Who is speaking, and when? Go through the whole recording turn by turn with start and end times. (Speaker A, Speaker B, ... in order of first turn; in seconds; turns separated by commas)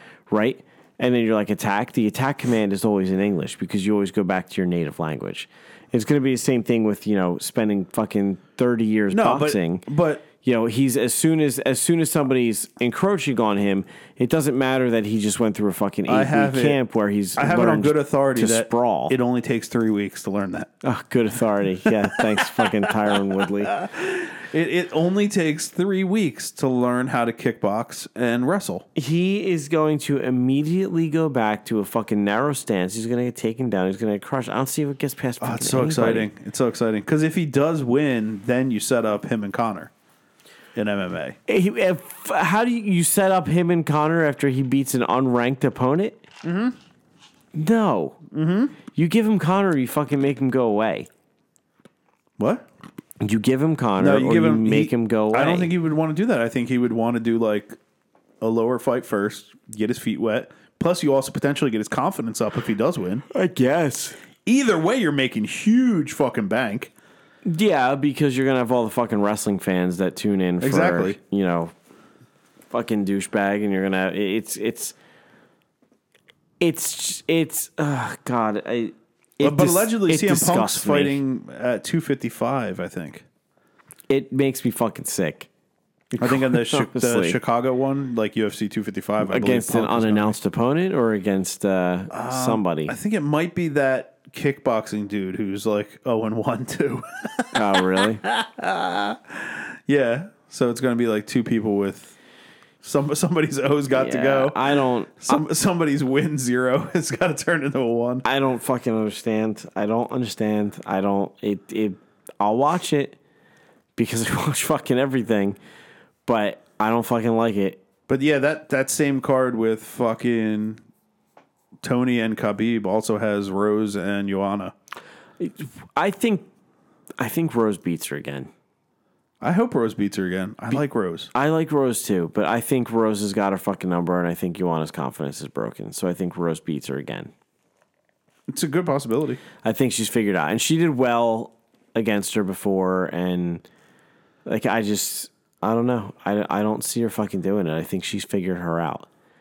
Speaker A: 0.3-9.9, Speaker B: 9.1-10.3, Speaker A: 10.4-19.2, Speaker B: 16.1-16.8, Speaker B: 17.4-20.7, Speaker A: 20.8-23.8, Speaker B: 21.9-28.9, Speaker A: 28.9-36.3, Speaker B: 35.4-39.9, Speaker B: 40.8-41.4, Speaker A: 41.5-46.2, Speaker B: 46.4-46.8, Speaker A: 47.5-48.2, Speaker B: 48.3-48.8, Speaker A: 48.9-51.1, Speaker B: 52.4-52.7, Speaker A: 53.2-55.7, Speaker B: 54.0-57.8, Speaker B: 58.4-63.3, Speaker A: 63.3-64.2, Speaker B: 64.5-66.9, Speaker A: 67.5-71.7, Speaker B: 70.6-71.2, Speaker A: 72.7-75.0, Speaker A: 76.6-81.2, Speaker B: 79.4-83.2, Speaker A: 84.1-85.5, Speaker A: 86.1-87.4, Speaker B: 86.2-90.4, Speaker A: 89.2-93.0, Speaker B: 92.1-102.2, Speaker A: 97.5-98.2, Speaker B: 102.8-108.2, Speaker A: 103.9-105.5, Speaker A: 108.2-113.2, Speaker A: 114.0-115.6, Speaker A: 116.3-117.8, Speaker B: 118.1-120.8, Speaker B: 121.8-124.7, Speaker A: 125.4-126.5, Speaker A: 127.2-128.5, Speaker B: 129.4-131.3, Speaker A: 131.3-137.3, Speaker B: 138.5-139.4, Speaker A: 139.6-143.6, Speaker A: 144.5-149.1